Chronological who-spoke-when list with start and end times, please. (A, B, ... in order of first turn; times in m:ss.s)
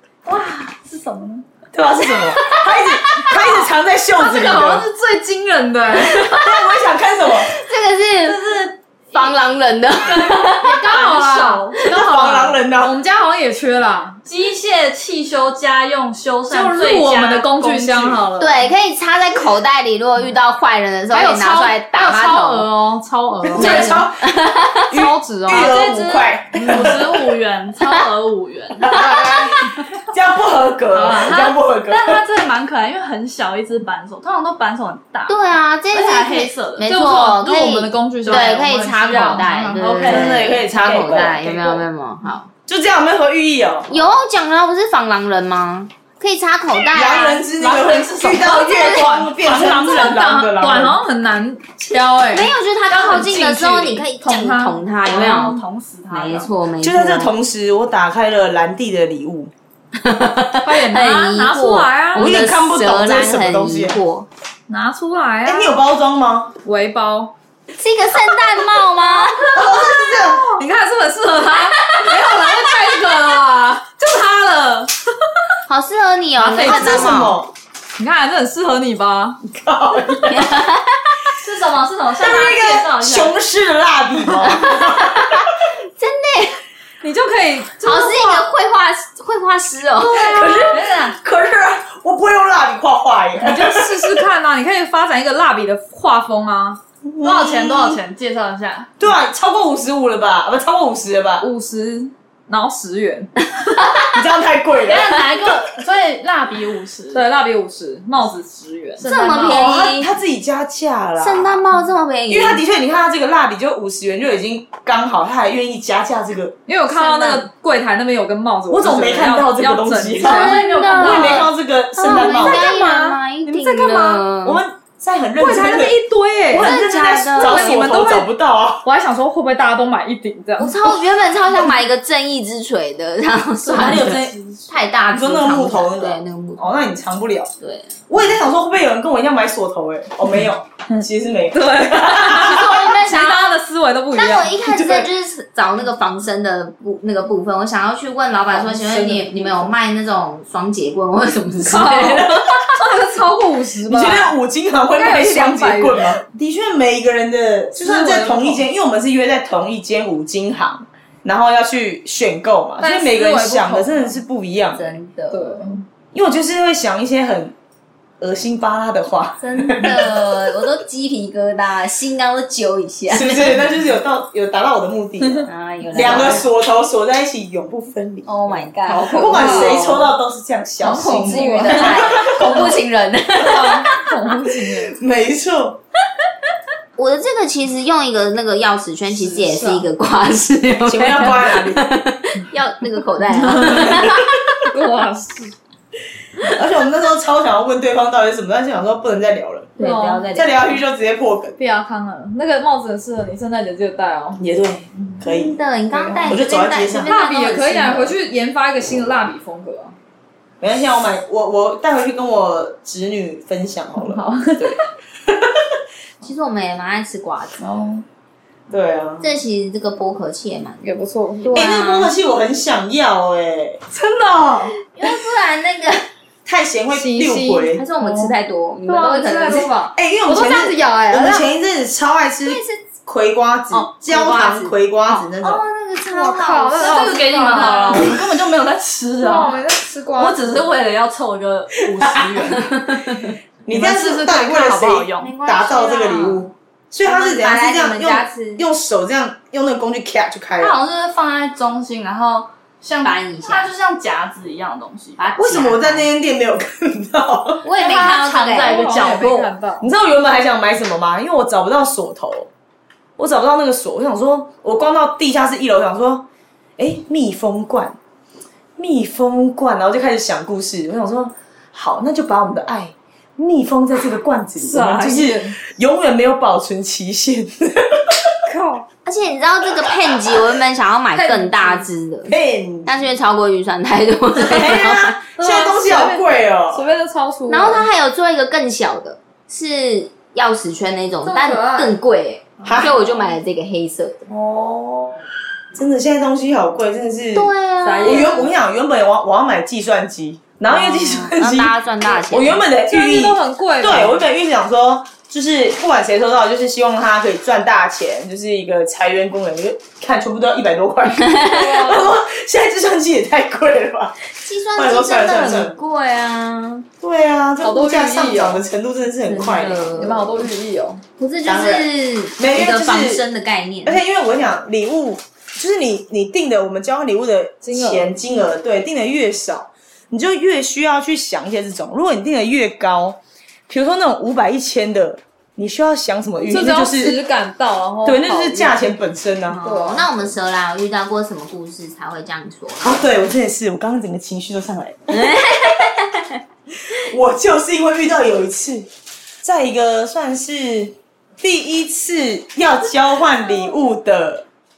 0:00.2-0:01.4 A
0:01.7-0:04.9 B
0:03.2-0:06.8 C
0:05.9-0:07.5 B
0:07.4-0:08.5 D
0:08.2-0:09.2 A
0:09.1-0:10.8 D
0:10.1-0:11.8 A
0:10.8-0:14.2 C
0:11.8-0:12.9 B
0:14.2-0:18.7 A
0:16.5-0:18.3 C
0:18.4-0:22.7 D
0:21.1-0:24.0 C
0:23.4-0:24.3 B
0:23.5-0:25.0 D
0:24.9-0:27.2 B
0:24.9-0:25.8 C
0:25.5-0:28.9 A
0:26.6-0:26.9 C
0:28.8-0:29.3 B
0:28.9-0:29.4 D
0:28.9-0:29.5 C
0:30.0-0:32.2 B
0:30.9-0:36.9 A
0:35.3-0:42.5 D
0:36.8-0:40.1 C
0:38.2-0:40.3 A
0:40.0-0:41.8 B
0:42.7-0:44.0 B
0:43.9-0:47.4 D
0:46.9-0:51.0 B
0:47.6-0:48.3 A
0:48.2-0:55.6 C
0:48.6-0:49.2 D
0:52.2-0:55.6 D
0:55.0-0:56.5 A
0:56.1-0:57.3 D
0:56.8-0:59.5 B
1:00.0-1:04.3 D
1:00.6-1:02.4 C
1:02.1-1:04.0 B
1:04.7-1:05.8 C
1:05.4-1:06.5 B
1:06.6-1:07.3 C
1:07.8-1:09.8 D
1:09.2-1:14.9 C
1:09.5-1:10.5 B
1:15.7-1:17.4 D
1:16.4-1:17.3 C
1:16.6-1:17.5 B
1:18.0-1:19.4 C
1:19.4-1:20.5 B
1:20.2-1:21.0 D
1:21.4-1:23.3 A
1:22.2-1:25.2 B
1:24.4-1:26.6 D
1:27.0-1:28.5 C
1:27.8-1:30.5 D
1:30.0-1:30.6 C
1:30.1-1:34.1 B
1:30.2-1:31.2 A
1:33.4-1:36.8 C
1:37.0-1:38.0 B
1:37.2-1:38.9 A
1:39.0-1:41.5 B
1:41.4-1:43.3 C
1:43.7-1:44.1 D
1:44.1-1:45.2 B
1:44.8-1:47.2 A
1:47.1-1:49.0 C
1:49.0-1:49.8 A
1:49.0-1:50.2 D
1:49.5-1:51.7 B
1:51.2-1:52.6 D
1:52.3-1:56.5 B
1:56.7-2:01.4 C
1:56.9-1:57.4 D
1:58.7-2:02.7 B
2:00.2-2:01.5 D
2:00.4-2:01.4 A
2:02.0-2:04.6 D
2:02.0-2:04.2 C
2:04.4-2:08.8 B
2:05.4-2:06.8 C
2:06.5-2:07.8 D
2:07.3-2:08.3 C
2:08.8-2:10.9 C
2:10.6-2:16.8 D
2:13.6-2:14.4 C
2:13.7-2:14.5 B
2:15.1-2:17.5 B
2:17.6-2:18.4 D
2:18.1-2:22.9 B
2:20.9-2:24.6 C
2:22.4-2:23.6 D
2:24.1-2:32.3 D
2:24.7-2:25.1 B
2:28.5-2:29.7 C
2:31.7-2:34.3 C
2:33.9-2:44.9 B
2:34.9-2:36.2 C
2:37.8-2:38.6 C
2:42.8-2:44.2 C
2:44.7-2:45.7 D
2:45.3-2:45.8 C
2:46.1-2:47.5 B
2:48.2-2:50.0 B
2:49.4-2:53.6 D
2:53.1-2:58.3 B
2:55.2-2:56.3 C
2:55.4-2:56.5 D
2:58.2-3:00.0 D
2:58.9-3:00.0 C
2:58.9-3:02.7 B
3:00.8-3:02.8 C
3:00.9-3:04.0 D
3:03.4-3:05.0 C
3:04.7-3:05.8 B
3:07.0-3:14.3 D
3:09.2-3:09.8 C
3:10.8-3:11.9 B
3:13.3-3:14.2 C
3:14.7-3:15.5 C
3:16.5-3:19.7 B
3:19.8-3:20.7 D
3:19.8-3:20.3 C
3:20.3-3:21.6 B
3:21.6-3:24.4 C
3:24.4-3:27.1 B
3:25.3-3:28.2 D
3:27.0-3:29.9 C
3:30.6-3:35.4 B
3:34.0-3:34.8 C
3:36.2-3:37.7 D
3:37.6-3:38.0 C
3:38.7-3:39.3 B
3:39.2-3:40.9 D
3:40.8-3:41.7 C
3:41.4-3:42.1 D
3:41.5-3:43.8 B
3:44.0-3:44.7 C
3:44.8-3:46.0 D
3:46.4-3:47.8 B
3:46.9-3:48.3 C
3:47.7-3:49.7 D
3:48.8-3:51.5 C
3:49.9-3:55.6 B
3:52.4-3:52.8 D
3:53.7-3:58.0 D
3:56.0-3:58.1 C
3:56.8-3:59.6 A
3:59.2-4:00.6 C
4:00.2-4:02.7 A
4:02.0-4:02.5 B
4:03.6-4:10.8 B
4:03.7-4:05.3 A
4:05.2-4:06.5 D
4:07.0-4:08.6 D
4:10.6-4:15.2 A
4:13.0-4:13.7 D
4:15.2-4:16.1 D
4:15.4-4:17.6 B
4:17.6-4:18.9 D
4:17.8-4:19.5 A
4:18.6-4:19.9 C
4:19.8-4:22.5 B
4:23.2-4:26.2 B
4:26.8-4:28.0 B
4:28.8-4:38.1 B
4:34.6-4:35.6 C
4:38.5-4:38.8 C
4:39.0-4:42.3 D
4:41.1-4:41.9 C
4:42.3-4:43.0 B
4:42.8-4:45.2 D
4:44.3-4:46.8 B
4:45.3-4:47.9 C
4:47.5-4:54.3 D
4:51.2-4:52.0 C
4:52.6-4:53.0 B
4:54.3-4:55.2 C
4:55.7-4:57.5 B
4:57.3-4:58.4 D
4:57.8-4:58.5 C
4:58.0-5:14.2 B
5:00.6-5:02.6 D
5:02.9-5:04.2 C
5:11.2-5:11.6 D
5:11.4-5:12.1 C
5:14.4-5:16.9 D
5:14.7-5:15.8 B
5:17.0-5:19.8 B
5:17.6-5:18.6 C
5:19.2-5:20.3 D
5:20.0-5:21.0 C
5:21.2-5:24.0 D
5:21.4-5:23.2 B
5:23.8-5:37.2 B
5:27.6-5:28.1 C
5:36.4-5:38.9 C
5:38.0-5:39.6 B
5:39.4-5:43.2 D
5:39.6-5:40.3 C
5:42.8-5:45.4 B
5:45.1-5:46.4 D
5:47.0-5:48.9 B
5:49.4-5:54.4 B